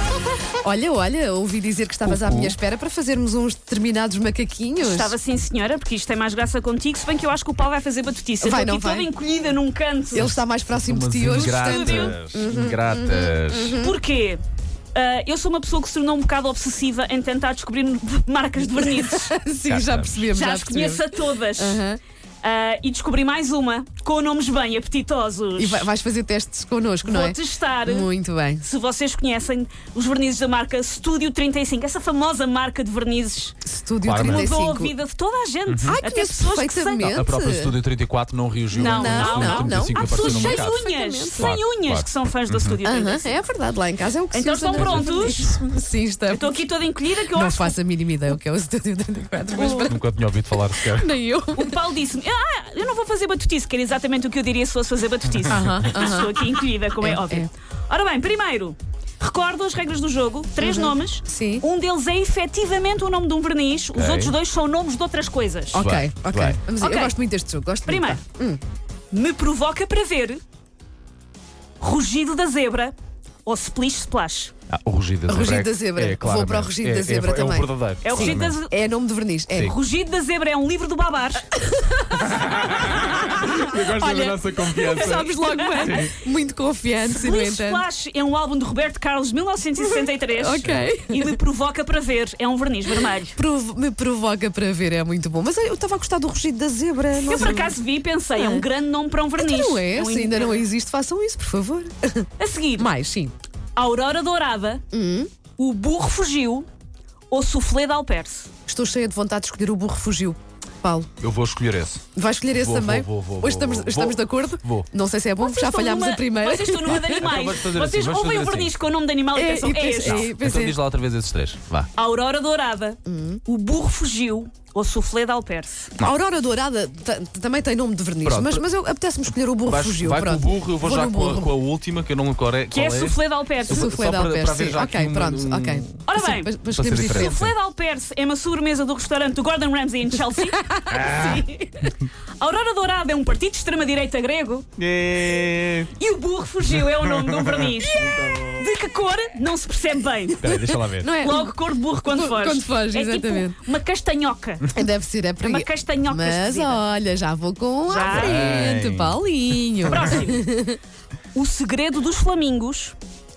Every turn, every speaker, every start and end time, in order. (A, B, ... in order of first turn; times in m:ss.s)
0:00.6-0:05.2 A
0:02.0-0:02.6 B
0:04.8-0:10.3 C
0:08.4-0:09.1 A
0:10.1-0:14.0 A
0:10.1-0:13.8 B
0:11.3-0:12.2 C
0:13.7-0:14.4 C
0:14.9-0:19.3 C
0:18.7-0:22.0 A
0:19.6-0:20.3 B
0:20.3-0:21.8 C
0:22.4-0:25.9 C
0:25.6-0:28.6 A
0:27.0-0:33.6 C
0:33.6-0:34.9 A
0:34.0-0:34.6 B
0:34.2-0:37.3 C
0:35.7-0:36.0 B
0:35.9-0:37.8 A
0:37.0-0:42.8 B
0:38.7-0:41.6 A
0:38.7-0:43.3 C
0:42.8-0:46.6 A
0:44.3-0:45.5 C
0:44.8-0:45.1 B
0:46.3-0:47.8 C
0:47.2-0:50.0 A
0:49.5-0:49.9 C
0:49.9-0:51.1 B
0:50.8-0:51.8 A
0:51.6-1:05.8 C
0:55.5-0:56.3 A
0:57.0-0:57.5 A
1:00.6-1:01.6 A
1:03.9-1:04.4 B
1:05.7-1:08.6 A
1:05.7-1:06.6 B
1:06.8-1:07.1 C
1:07.9-1:08.2 C
1:09.1-1:10.4 C
1:11.8-1:12.9 C
1:13.4-1:14.5 C
1:14.7-1:18.6 B
1:15.3-1:19.8 A
1:18.0-1:18.8 C
1:19.6-1:21.5 C
1:21.7-1:22.0 A
1:22.1-1:26.1 B
1:23.1-1:27.9 A
1:25.5-1:26.1 C
1:27.1-1:33.4 C
1:29.8-1:31.4 A
1:33.0-1:37.8 A
1:37.2-1:40.6 C
1:38.4-1:38.7 A
1:39.4-1:43.3 A
1:42.4-1:42.9 C
1:43.8-1:44.8 C
1:44.9-1:45.3 A
1:45.6-1:46.7 C
1:47.3-1:48.5 C
1:48.7-1:51.1 A
1:51.2-1:54.9 B
1:52.2-1:57.3 A
1:55.4-2:00.3 C
1:56.9-1:58.7 B
1:59.3-2:00.8 A
2:00.0-2:01.9 B
2:01.9-2:05.9 C
2:03.0-2:03.4 A
2:06.0-2:11.5 A
2:08.2-2:08.7 B
2:09.6-2:16.0 B
2:12.7-2:13.9 C
2:13.7-2:17.4 A
2:16.1-2:16.5 C
2:16.7-2:17.5 B
2:17.1-2:24.7 C
2:20.6-2:21.2 A
2:20.9-2:21.5 B
2:24.8-2:25.9 B
2:26.0-2:34.8 C
2:26.8-2:28.6 B
2:30.4-2:31.1 B
2:30.5-2:33.6 A
2:34.7-2:40.8 A
2:35.4-2:36.8 C
2:37.9-2:38.5 C
2:38.0-2:39.2 B
2:39.8-2:40.5 C
2:39.9-2:40.1 B
2:41.3-2:43.0 C